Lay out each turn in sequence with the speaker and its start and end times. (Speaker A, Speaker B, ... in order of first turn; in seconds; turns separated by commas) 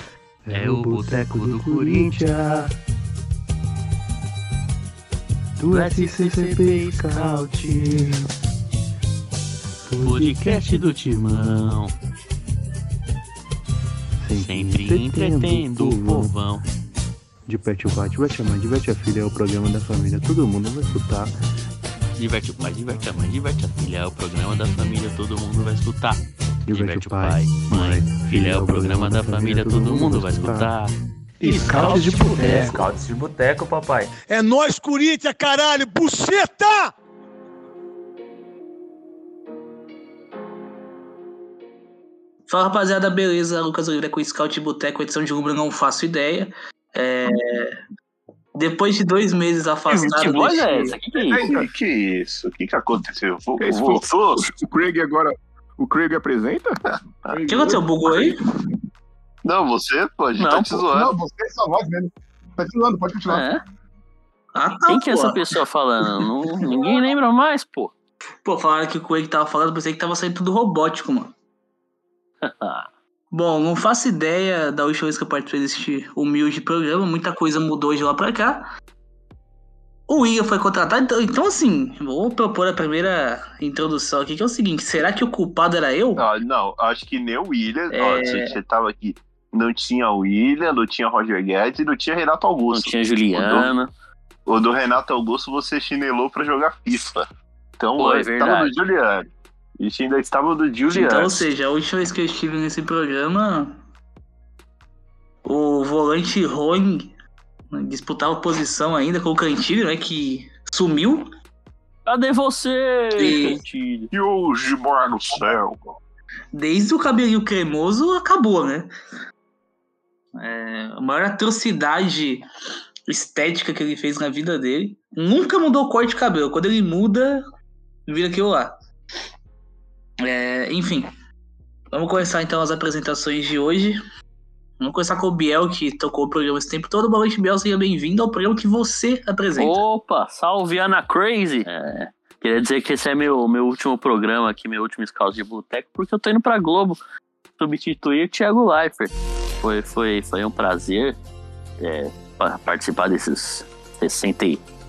Speaker A: 0.4-2.7, Speaker B: 0.5-2.5, Speaker A: 5.6-8.3, Speaker B: 5.7-8.0, Speaker A: 9.9-11.8, Speaker B: 10.0-11.9, Speaker A: 14.2-16.4, Speaker B: 14.4-16.6, Speaker A: 17.5-21.3, Speaker B: 22.2-32.8, Speaker A: 26.7-30.7, Speaker A: 31.4-32.9, Speaker C: 34.1-36.9, Speaker D: 42.5-47.8, Speaker D: 48.5-50.9, Speaker B: 49.9-51.5, Speaker E: 51.3-54.4, Speaker F: 51.3-51.7, Speaker G: 53.6-56.8, Speaker E: 56.9-57.4, Speaker F: 57.3-57.8, Speaker D: 57.5-58.4, Speaker E: 59.4-61.1, Speaker B: 60.4-60.9, Speaker F: 60.9-63.4, Speaker B: 63.3-63.6, Speaker D: 64.5-65.4, Speaker B: 64.9-67.9, Speaker D: 68.5-71.3, Speaker B: 72.4-72.9, Speaker D: 73.3-78.6, Speaker D: 80.1-86.2, Speaker E: 86.2-93.7, Speaker D: 87.9-88.6, Speaker B: 92.7-93.9, Speaker E: 94.5-97.3, Speaker E: 97.8-101.4, Speaker B: 98.0-98.8, Speaker D: 100.9-103.8, Speaker D: 105.5-107.1, Speaker D: 107.7-111.3, Speaker B: 112.1-114.1, Speaker D: 113.2-113.6, Speaker E: 114.1-116.0, Speaker D: 116.5-118.9, Speaker D: 120.4-122.4, Speaker D: 123.1-127.4, Speaker D: 128.1-128.7, Speaker D: 130.2-131.1, Speaker D: 131.9-134.0, Speaker D: 134.8-139.8, Speaker B: 139.6-147.0, Speaker B: 147.6-151.2, Speaker B: 151.8-154.6